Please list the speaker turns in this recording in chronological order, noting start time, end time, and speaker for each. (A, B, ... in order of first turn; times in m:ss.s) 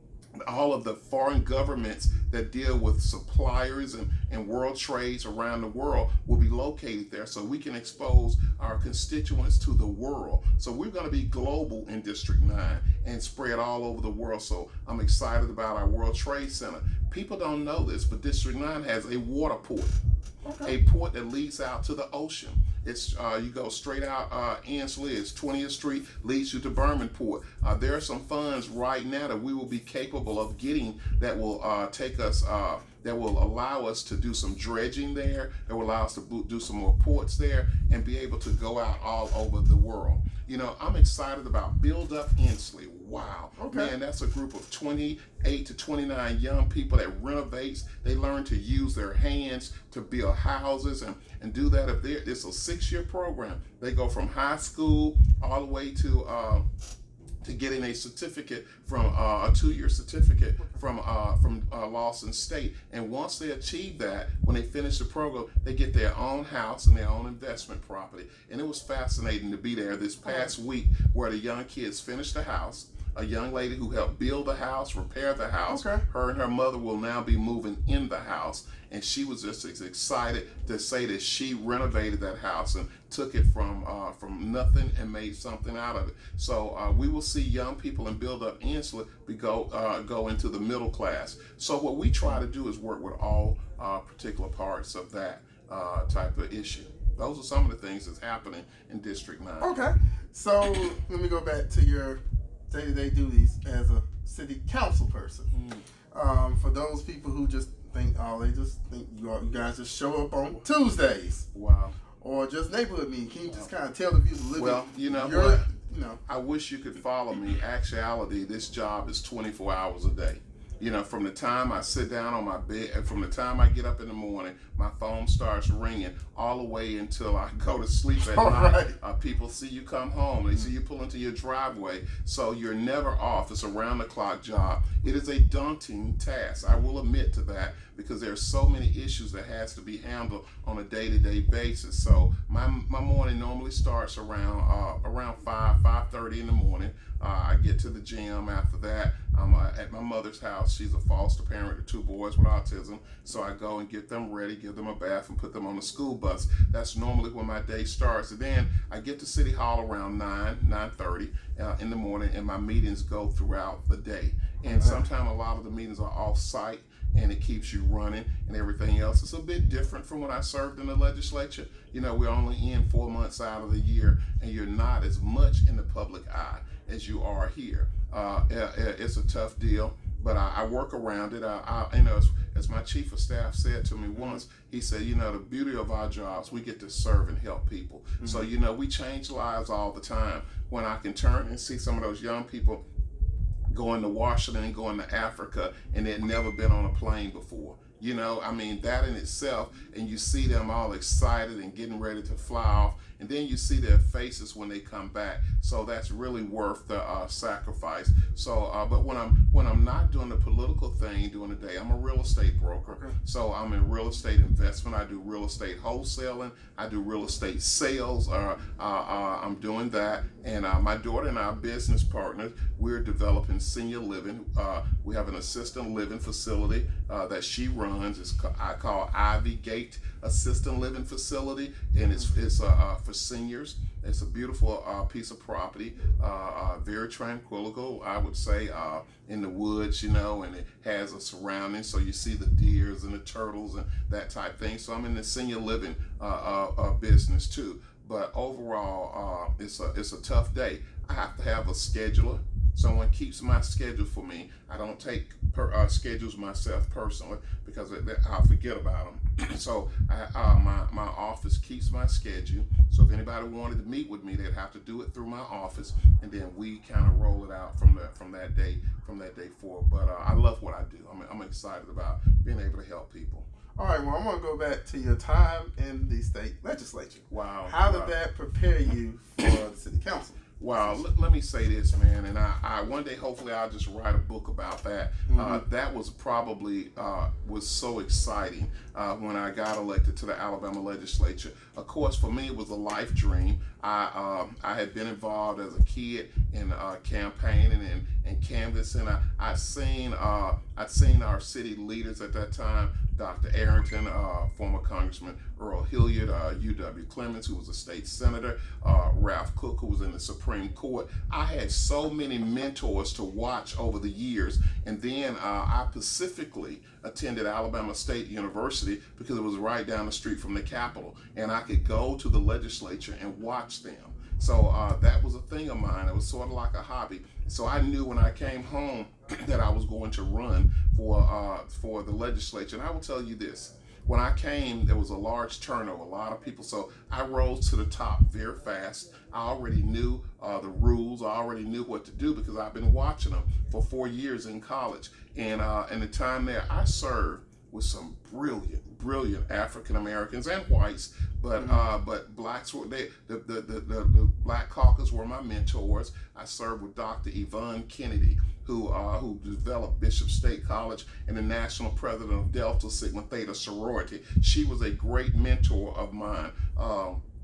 0:00.5-0:20.0 A
0:20.4-0:20.7 B
0:20.6-0:56.7 A
0:43.6-0:43.9 B
0:57.4-1:39.8 A
1:10.2-1:10.5 B
1:15.7-1:16.0 B
1:39.6-1:45.5 B
1:45.5-1:45.8 A
1:46.1-1:51.5 B
1:51.5-1:52.0 A
1:52.2-1:56.2 B
1:54.6-1:55.7 A
1:56.3-3:12.8 A
2:08.2-2:09.0 B
2:44.7-2:45.0 B
3:04.2-3:04.4 B
3:08.2-3:08.5 B
3:13.7-4:33.5 A
3:32.9-3:33.2 B
4:33.8-4:41.0 B
4:37.3-4:38.2 A
4:40.6-6:07.2 A
4:45.3-4:45.6 B
5:51.6-5:51.8 B